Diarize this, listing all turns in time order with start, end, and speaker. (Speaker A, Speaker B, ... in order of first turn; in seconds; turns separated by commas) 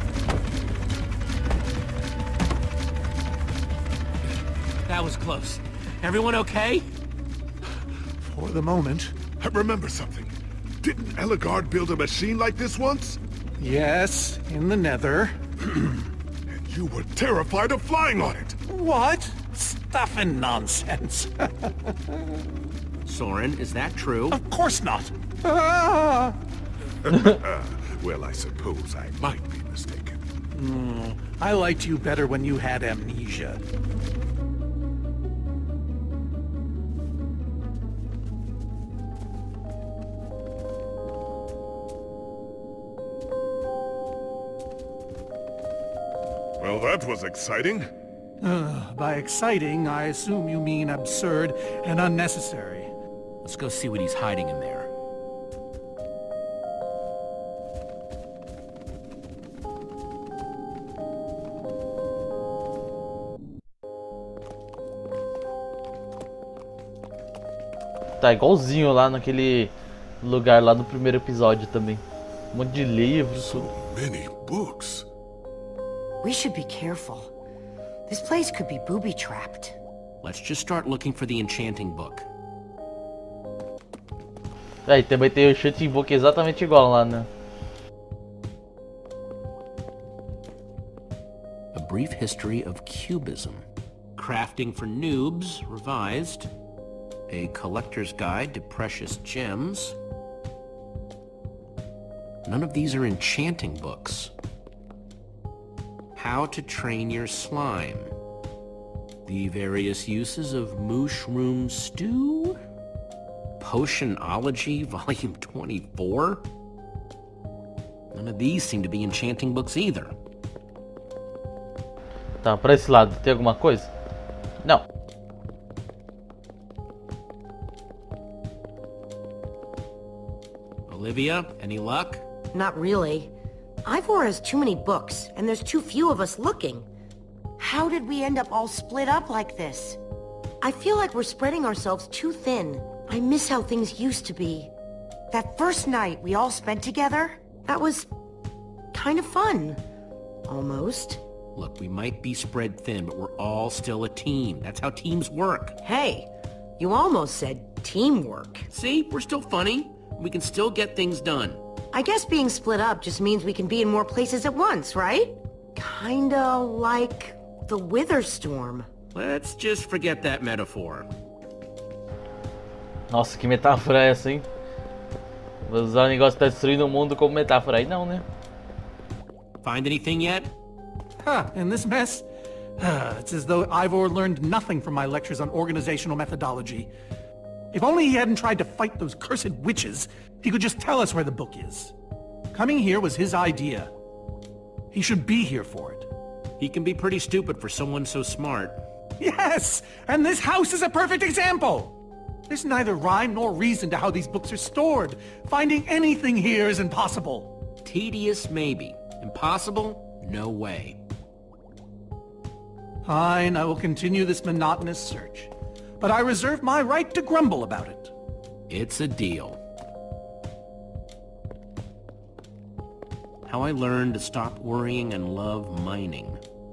Speaker A: 4.8-6.9, Speaker B: 8.2-9.2, Speaker C: 9.3-13.2, Speaker B: 13.6-15.8, Speaker C: 16.5-18.6, Speaker B: 18.7-22.2, Speaker A: 23.1-24.4, Speaker B: 24.3-26.4, Speaker C: 27.0-30.2, Speaker B: 30.5-33.6, Speaker C: 46.6-47.9, Speaker B: 48.4-52.9, Speaker A: 53.4-54.9, Speaker D: 68.2-72.0, Speaker D: 72.5-73.7, Speaker C: 73.3-75.1, Speaker E: 76.2-77.3, Speaker E: 78.1-79.8, Speaker A: 80.2-82.2, Speaker D: 84.9-87.3, Speaker A: 91.7-93.6, Speaker A: 94.2-96.5, Speaker A: 97.3-100.0, Speaker A: 102.5-104.3, Speaker A: 106.2-108.1, Speaker A: 109.2-112.6, Speaker A: 113.6-116.4, Speaker A: 118.1-120.1, Speaker D: 122.4-123.9, Speaker A: 130.9-132.2, Speaker E: 132.5-133.3, Speaker E: 133.8-136.9, Speaker E: 137.6-140.0, Speaker E: 140.6-144.7, Speaker E: 145.3-148.1, Speaker E: 148.9-149.8, Speaker E: 150.5-151.2, Speaker A: 151.6-155.8, Speaker E: 155.8-158.7, Speaker A: 158.7-161.6, Speaker E: 161.9-168.9, Speaker A: 169.1-171.1, Speaker D: 173.1-174.4, Speaker D: 175.7-178.2, Speaker A: 179.6-180.5, Speaker B: 181.2-182.2, Speaker B: 182.8-186.9, Speaker B: 187.7-191.9, Speaker B: 192.5-193.9, Speaker B: 194.9-196.1, Speaker A: 196.6-198.8, Speaker B: 199.2-201.9, Speaker B: 202.5-207.5, Speaker A: 207.8-211.0, Speaker B: 213.0-218.1, Speaker A: 218.7-219.6, Speaker A: 223.5-226.4